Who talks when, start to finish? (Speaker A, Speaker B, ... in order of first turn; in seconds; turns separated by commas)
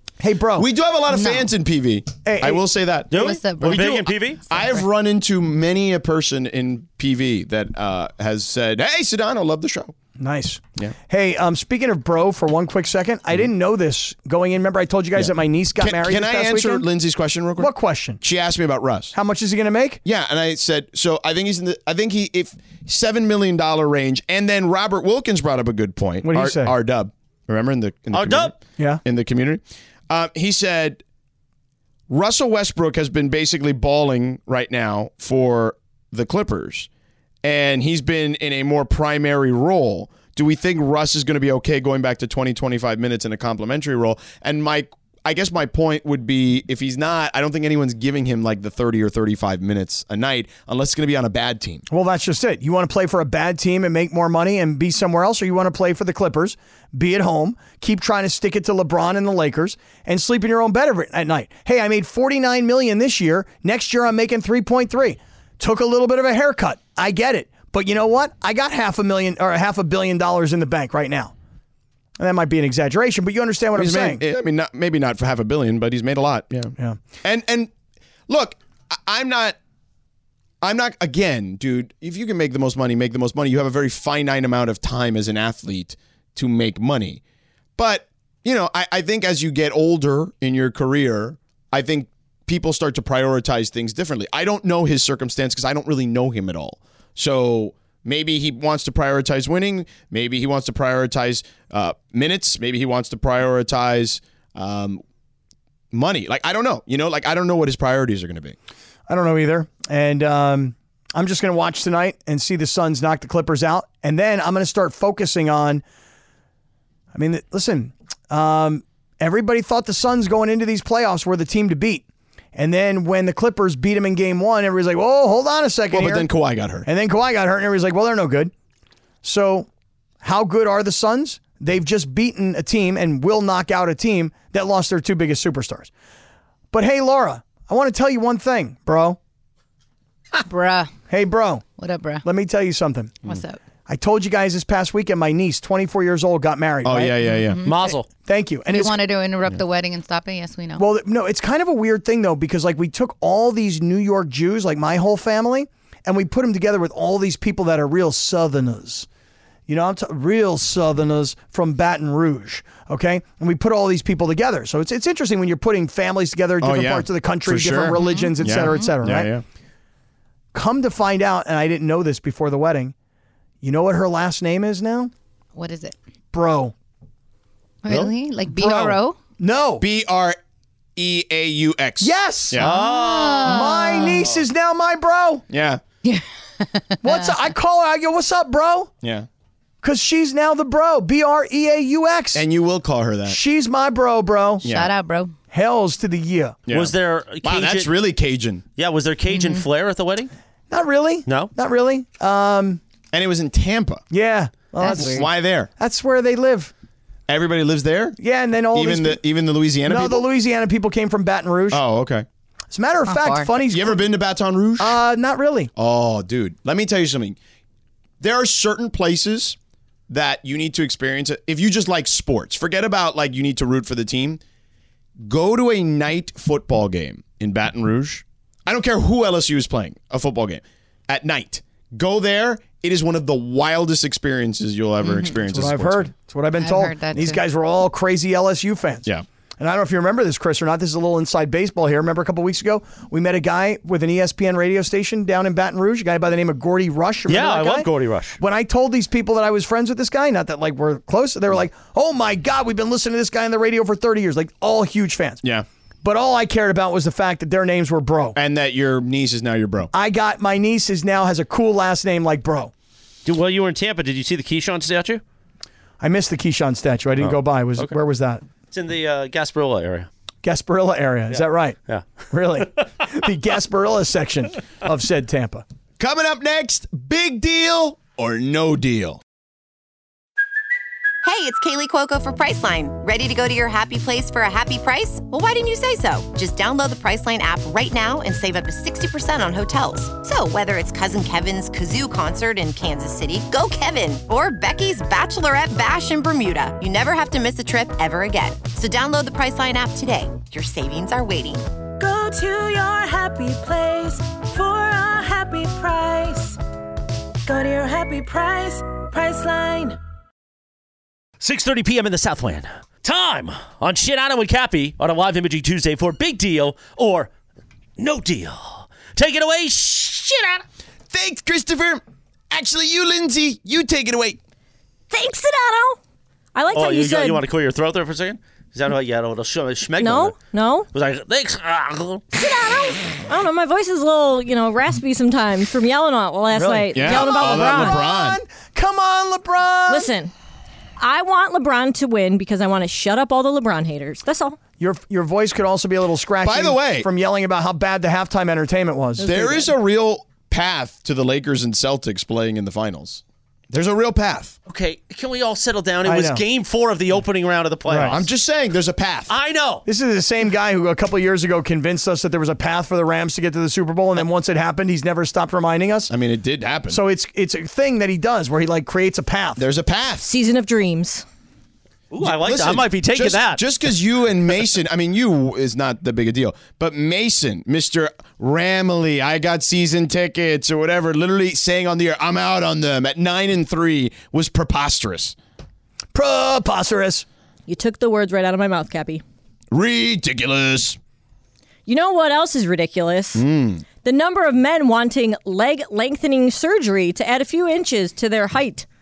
Speaker A: 0.2-0.7, Speaker B: 0.6-9.9, Speaker C: 1.1-1.5, Speaker A: 2.2-2.6, Speaker D: 3.1-4.4, Speaker C: 3.1-4.0, Speaker C: 4.5-4.8, Speaker A: 10.2-16.9, Speaker B: 15.2-17.7, Speaker A: 17.6-18.2, Speaker B: 18.2-19.1, Speaker A: 19.1-20.0, Speaker B: 20.1-31.0, Speaker A: 26.2-26.8, Speaker D: 28.1-28.5, Speaker A: 28.8-29.0, Speaker B: 32.1-36.9, Speaker B: 37.4-51.9, Speaker A: 51.9-71.3, Speaker A: 72.2-74.2, Speaker B: 73.8-77.7, Speaker A: 76.8-77.0, Speaker B: 78.3-79.6, Speaker B: 80.6-87.2, Speaker B: 87.8-105.0, Speaker B: 105.9-108.6, Speaker A: 109.1-115.8, Speaker A: 117.1-126.3, Speaker B: 125.9-126.9, Speaker A: 126.8-128.5, Speaker A: 129.2-129.7, Speaker A: 130.2-135.9, Speaker A: 136.7-139.2, Speaker C: 140.4-140.9, Speaker A: 141.1-141.7, Speaker C: 141.8-142.2, Speaker A: 142.2-143.2, Speaker C: 143.3-143.6, Speaker A: 143.9-147.3, Speaker B: 146.8-147.7, Speaker C: 147.3-147.9, Speaker D: 147.7-148.1, Speaker A: 148.2-149.0, Speaker C: 148.7-150.8, Speaker A: 150.8-159.1, Speaker A: 159.7-169.3, Speaker B: 166.6-169.4, Speaker C: 167.9-169.0, Speaker A: 170.5-172.9, Speaker A: 173.6-175.1, Speaker C: 175.6-176.0, Speaker A: 176.3-176.7, Speaker C: 177.8-179.2, Speaker A: 178.6-179.8, Speaker B: 179.8-180.4, Speaker B: 181.0-182.8, Speaker A: 182.0-182.8, Speaker D: 182.6-183.8, Speaker C: 182.7-184.3, Speaker A: 183.4-185.4, Speaker B: 185.5-185.8, Speaker C: 186.0-187.4, Speaker A: 187.0-188.9, Speaker B: 189.0-189.3, Speaker A: 189.8-192.5, Speaker B: 192.3-193.4, Speaker A: 193.3-194.7, Speaker B: 194.6-194.9, Speaker C: 194.6-195.3, Speaker A: 195.5-196.6, Speaker B: 196.7-198.6, Speaker D: 196.7-197.9, Speaker D: 198.8-200.3, Speaker C: 199.3-199.6, Speaker A: 200.7-202.8, Speaker D: 201.3-201.5, Speaker B: 203.1-204.0, Speaker A: 204.1-206.7, Speaker C: 204.8-205.3, Speaker B: 204.9-205.7, Speaker B: 207.3-208.2, Speaker A: 208.2-209.2, Speaker B: 208.7-210.2, Speaker A: 209.9-211.8, Speaker B: 211.7-212.3, Speaker A: 212.7-214.0, Speaker C: 213.1-213.6, Speaker B: 213.7-215.0, Speaker A: 214.8-215.7, Speaker B: 215.8-217.4, Speaker B: 218.2-219.6, Speaker B: 220.1-224.4, Speaker B: 225.2-236.1, Speaker C: 235.0-235.4, Speaker A: 235.5-239.1, Speaker C: 236.6-237.4, Speaker A: 239.6-255.4, Speaker D: 247.3-248.4, Speaker A: 256.0-258.4, Speaker B: 258.4-259.9, Speaker A: 259.9-262.7, Speaker D: 263.2-265.2, Speaker A: 266.0-268.4, Speaker D: 267.2-267.9, Speaker D: 268.7-270.1, Speaker A: 270.4-271.8, Speaker D: 271.3-272.1, Speaker A: 272.3-275.6, Speaker B: 276.0-279.2, Speaker E: 281.2-301.7, Speaker F: 302.0-306.6, Speaker F: 307.4-310.0, Speaker D: 311.4-317.3, Speaker D: 318.0-320.6, Speaker B: 321.1-324.4, Speaker G: 325.1-326.0, Speaker G: 326.6-327.4, Speaker D: 326.7-330.4, Speaker G: 330.0-330.9, Speaker D: 330.9-332.3, Speaker G: 332.3-338.0, Speaker A: 336.5-340.1, Speaker B: 336.9-338.4, Speaker G: 339.9-340.3, Speaker G: 341.0-344.6, Speaker A: 344.8-349.3, Speaker B: 346.4-347.1, Speaker G: 349.2-349.7, Speaker B: 349.2-354.6, Speaker D: 354.7-358.3, Speaker A: 356.1-356.4, Speaker A: 357.9-358.2, Speaker B: 358.0-359.3, Speaker D: 359.3-359.9, Speaker A: 359.9-366.1, Speaker B: 366.1-367.0, Speaker A: 366.9-369.6, Speaker B: 369.6-370.3, Speaker G: 370.2-371.2, Speaker D: 372.1-373.6, Speaker B: 372.2-385.4, Speaker A: 386.1-387.2, Speaker G: 387.7-389.2, Speaker B: 389.7-391.0, Speaker G: 391.9-393.4, Speaker B: 393.4-393.8, Speaker G: 394.0-398.9